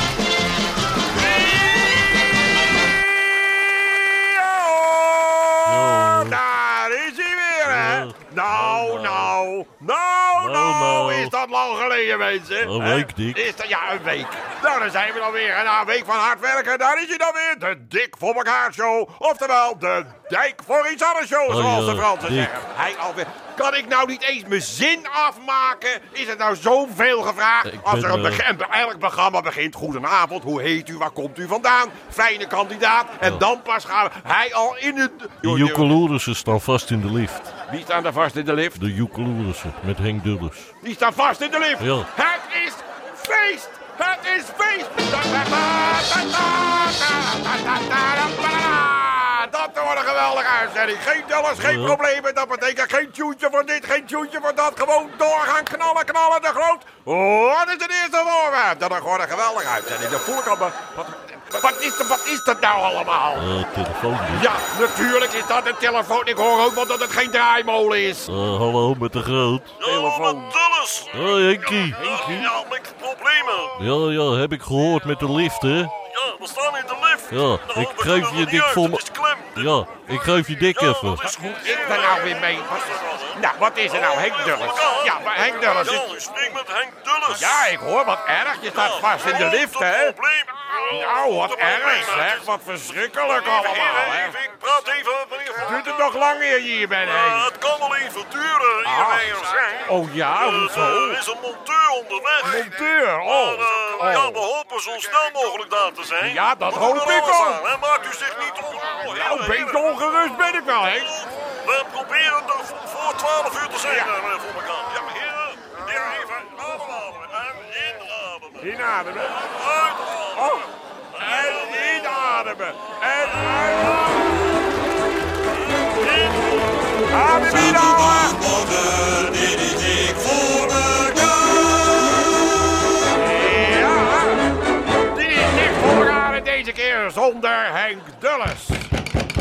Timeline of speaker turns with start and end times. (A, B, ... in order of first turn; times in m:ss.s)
0:04.0-0:35.9 A
0:05.6-0:06.4 B
0:07.6-0:09.3 B
0:10.3-0:11.3 B
0:12.6-0:13.5 B
0:21.5-0:22.6 B
0:27.6-0:28.4 B
0:35.4-0:37.5 B
0:37.7-0:38.8 A
0:38.8-0:40.7 B
0:40.8-1:03.5 A
0:41.8-0:42.1 B
0:51.5-0:52.0 B
1:03.3-1:04.5 B
1:04.3-1:08.3 A
1:08.2-1:09.8 B
1:09.8-1:13.8 C
1:09.8-1:10.6 A
1:11.1-1:12.1 B
1:11.9-1:12.5 A
1:13.7-1:16.0 B
1:16.0-1:19.7 C
1:17.3-1:21.3 B
1:20.7-1:27.7 C
1:21.4-1:26.0 A
1:27.3-1:30.2 A
1:28.7-1:32.5 C
1:30.8-1:34.4 A
1:33.3-1:36.2 C
1:35.6-1:37.5 A
1:37.0-1:49.9 C
1:38.8-1:39.3 A
1:39.8-1:41.2 A
1:42.4-1:44.4 A
1:46.2-1:47.6 A
1:49.0-1:51.2 A
1:50.8-1:58.8 C
1:53.9-1:54.1 A
1:58.6-1:59.7 A
1:59.4-2:00.6 C
2:00.3-2:04.4 A
2:01.4-2:01.8 C
2:03.3-2:04.0 C
2:05.8-2:06.6 C
2:07.1-2:08.8 A
2:09.9-2:11.4 A
2:13.1-2:18.9 A